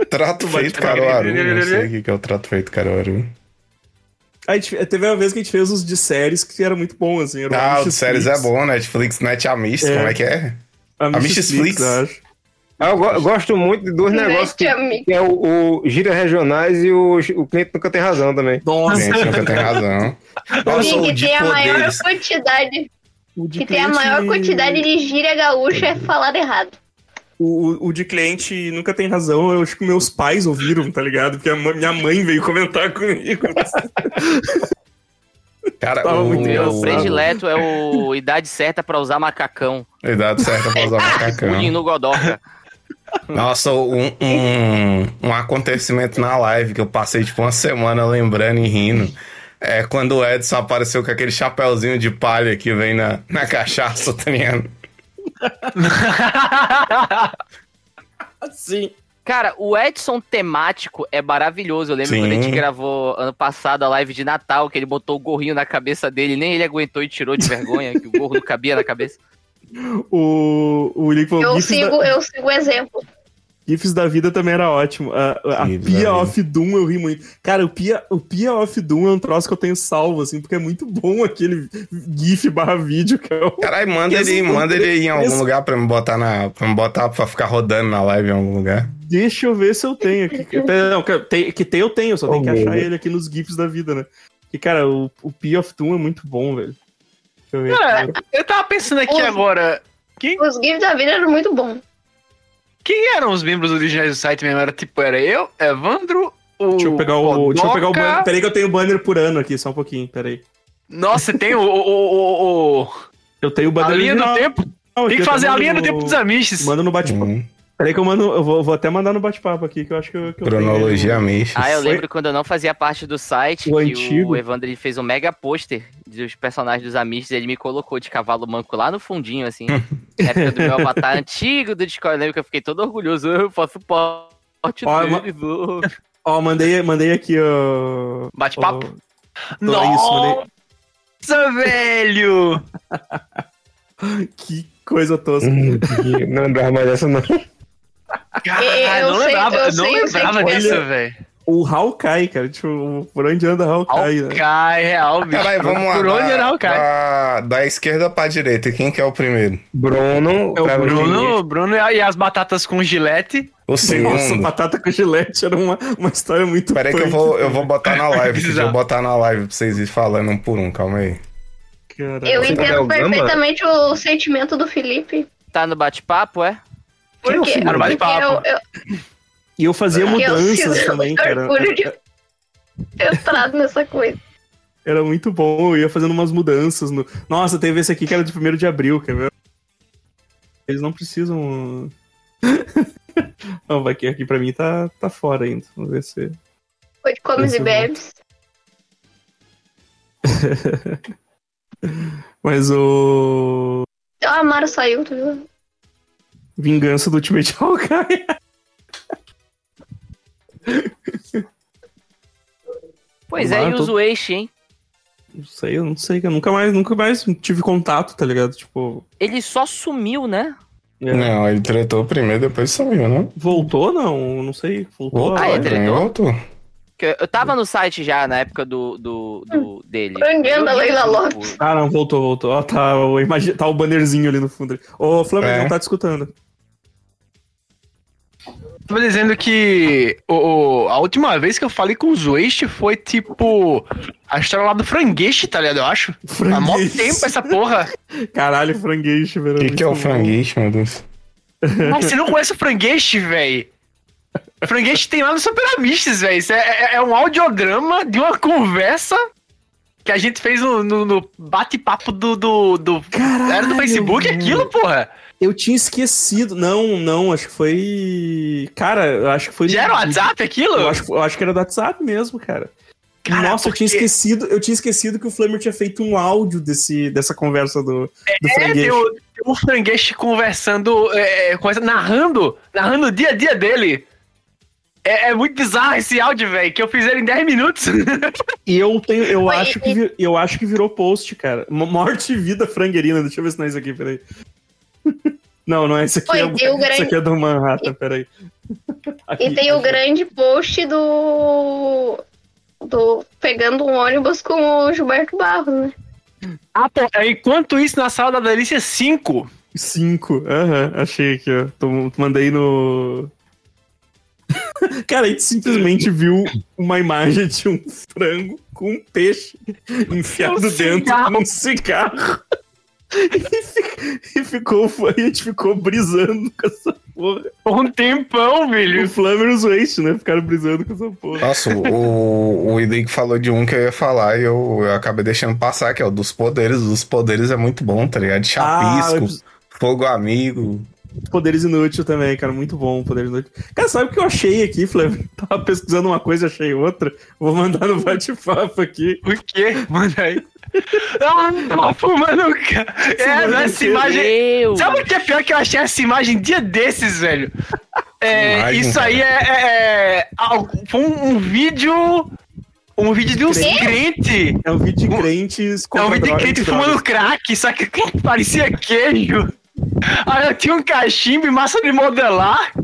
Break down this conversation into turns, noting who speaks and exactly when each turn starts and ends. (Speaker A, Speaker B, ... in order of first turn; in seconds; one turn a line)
Speaker A: 0.1-3.3
Speaker B: 0.4-1.9
Speaker B: 4.5-8.5
Speaker A: 7.5-10.6
Speaker B: 9.8-10.2
Speaker B: 11.0-12.2
Speaker A: 11.1-12.0
Speaker C: 12.8-18.6
Speaker A: 12.8-13.2
Speaker D: 14.1-15.1
Speaker B: 18.6-20.0
Speaker E: 18.9-19.7
Speaker A: 18.9-22.0
Speaker E: 20.6-20.9
Speaker D: 20.7-22.9
Speaker B: 23.4-24.9
Speaker D: 23.6-26.7
Speaker A: 25.7-26.1
Speaker B: 27.4-34.6
Speaker A: 35.8-37.2
Speaker B: 36.0-37.2
Speaker F: 36.3-39.9
Speaker A: 40.0-41.8
Speaker E: 40.8-41.3
Speaker F: 41.4-42.4
Speaker A: 43.3-54.7
Speaker E: 55.8-57.3
Speaker B: 58.4-58.9
Speaker F: 59.2-69.2
Speaker A: 62.0-62.6
Speaker B: 69.8-72.1
Speaker D: 71.4-73.0
Speaker B: 73.7-85.4
Speaker A: 75.6-76.3
Speaker A: 83.6-88.9
Speaker B: 88.9-96.8
Speaker C: 92.3-92.9
Speaker B: 97.5-98.2
Speaker E: 97.7-100.4
Speaker D: 99.1-99.4
Speaker D: 100.4-101.8
Speaker E: 102.8-108.3
Speaker B: 106.8-110.4
Speaker E: 110.9-112.9
Speaker B: 113.4-122.0
Speaker E: 113.8-116.7
Speaker A: 117.0-117.5
Speaker A: 120.4-121.7
Speaker F: 121.5-135.8
Speaker B: 123.7-124.4
Speaker B: 130.2-131.1
Speaker B: 134.8-135.3
Speaker B: 135.8-138.9
Speaker E: 138.3-138.8
Speaker E: 139.6-140.4
Speaker B: 139.6-140.4
Speaker E: 141.2-142.6
Speaker B: 142.9-143.4
Speaker B: 144.0-146.2
Speaker C: 145.4-147.4
Speaker E: 148.4-151.2
Speaker D: 148.6-150.8
Speaker B: 150.5-150.8
Speaker B: 151.5-154.4
Speaker E: 153.9-156.8
Speaker A: 155.2-159.6
Speaker C: 159.7-161.3
Speaker B: 160.6-161.4
Speaker E: 160.8-163.5
Speaker A: 163.7-164.5
Speaker B: 163.8-167.7
Speaker A: 166.7-171.2
Speaker E: 167.9-168.8
Speaker B: 171.9-172.8
Speaker D: 172.2-175.3
Speaker C: 172.4-173.4
Speaker F: 175.5-176.6
Speaker D: 177.2-178.6
Speaker C: 177.2-178.0
Speaker E: 177.4-178.4
Speaker B: 179.6-181.9
Speaker D: 180.1-181.9
Speaker D: 183.0-184.2
Speaker B: 184.8-189.3
Speaker B: 190.7-191.9
Speaker B: 192.4-192.9
Speaker B: 193.7-196.3
Speaker D: 197.0-198.1
Speaker B: 197.4-197.9
Speaker B: 200.2-201.0
Speaker B: 201.8-203.8
Speaker D: 204.2-205.4
Speaker B: 206.6-208.3
Speaker B: 210.7-211.4
Speaker F: 213.3-214.5
Speaker B: 213.3-213.9
Speaker B: 215.3-219.0
Speaker F: 219.2-220.6
Speaker B: 221.0-221.3
Speaker A: 221.1-223.3
Speaker B: 223.3-225.8
Speaker A: 225.1-226.4
Speaker F: 225.3-226.1
Speaker F: 227.0-231.6
Speaker D: 230.2-231.5
Speaker B: 231.6-236.3
Speaker A: 235.4-235.7
Speaker E: 238.9-247.9
Speaker B: 246.2-247.4
Speaker B: 248.3-250.3
Speaker A: 249.6-251.1
Speaker B: 251.6-252.1
Speaker E: 251.8-253.7
Speaker E: 254.6-259.2
Speaker E: 260.0-265.1
Speaker B: 263.1-264.7
Speaker B: 265.4-272.7
Speaker E: 269.7-271.0
Speaker E: 273.2-274.1
Speaker B: 273.3-279.1
Speaker E: 278.2-284.0
Speaker E: 285.0-288.4
Speaker B: 288.7-294.2
Speaker D: 289.4-290.0
Speaker B: 295.1-298.3
Speaker D: 296.3-297.1
Speaker B: 299.3-300.0
Speaker D: 299.4-302.2
Speaker D: 302.8-305.9
Speaker E: 306.7-309.5
Speaker B: 309.7-313.3
Speaker B: 314.6-322.4
Speaker E: 320.4-321.4
Speaker B: 323.1-327.5
Speaker E: 327.6-329.1
Speaker B: 328.9-331.8
Speaker A: 331.4-340.9
Speaker B: 338.6-339.4
Speaker B: 341.3-349.2
Speaker E: 349.2-350.4
Speaker E: 350.9-357.5
Speaker B: 353.2-354.1
Speaker F: 354.0-355.1
Speaker E: 358.2-362.3
Speaker A: 358.3-359.2
Speaker E: 363.0-365.3
Speaker B: 363.3-363.8
Speaker D: 363.6-363.9
Speaker B: 364.6-367.0
Speaker E: 365.9-369.5
Speaker E: 370.2-372.6